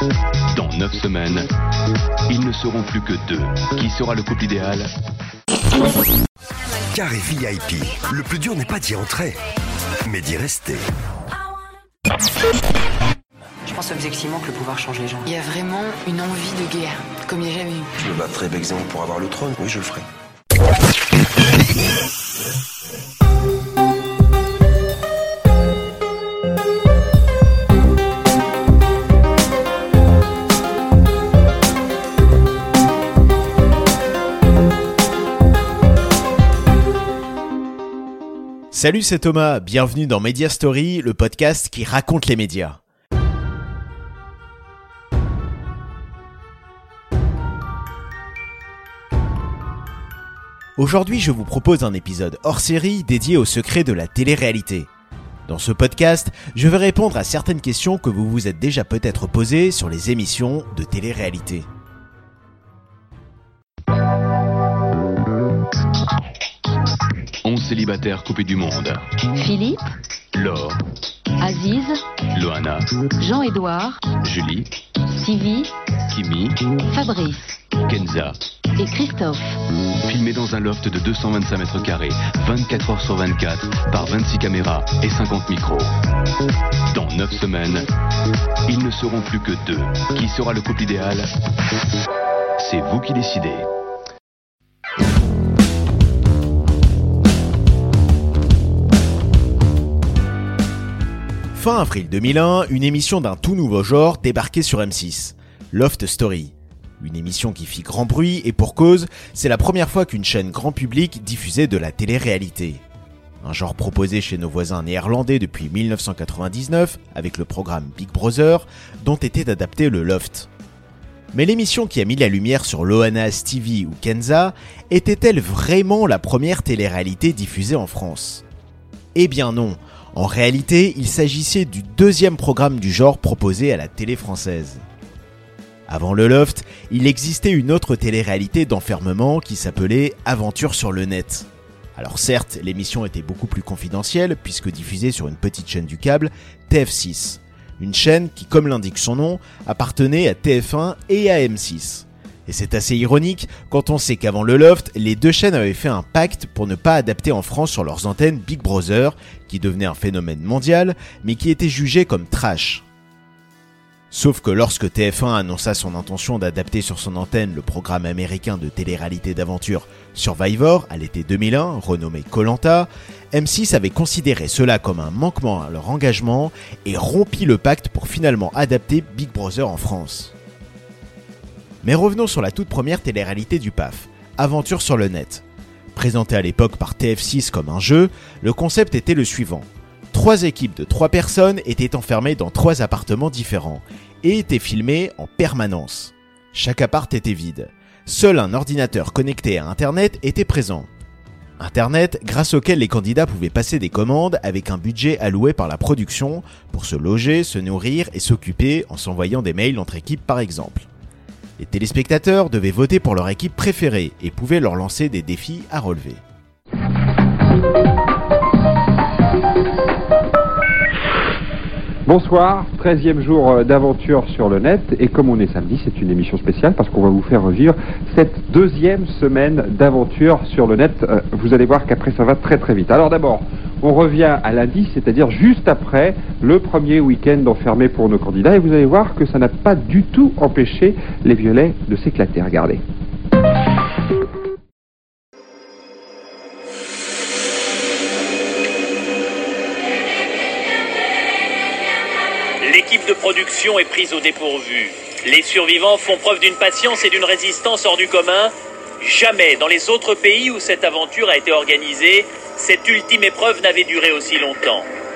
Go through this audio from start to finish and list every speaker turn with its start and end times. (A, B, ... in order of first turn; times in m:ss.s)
0:00.5-0:01.5 A
0:02.3-0:04.9 A
0:06.9-0:09.4 B
0:10.1-0:10.9 B
0:13.7-0:17.9 C
0:18.0-0:20.1 B
0:38.7-0:42.8 D
0:50.8-0:54.9 D
0:55.5-1:01.7 D
1:07.4-1:09.0 A
1:09.4-1:09.8 E
1:10.3-1:10.8 A
1:11.4-1:12.0 E
1:12.3-1:12.9 A
1:13.2-1:14.0 E
1:14.2-1:14.7 A
1:15.1-1:15.7 E
1:16.1-1:16.6 A
1:16.9-1:17.5 E
1:17.8-1:18.4 A
1:18.8-1:19.6 E
1:20.1-1:25.9 A
1:26.9-1:27.9 A
1:28.7-1:31.3 A
1:32.6-1:33.7 A
1:41.5-1:52.8 D
1:53.4-2:00.5 D
2:01.3-2:08.4 D
2:09.2-2:14.8 D
2:15.9-2:42.8 D
2:44.1-3:00.3 D
3:01.8-3:20.9 D
3:21.6-3:30.9 D
3:31.6-3:36.2 D
3:42.1-4:02.8 F
4:12.6-4:24.9 G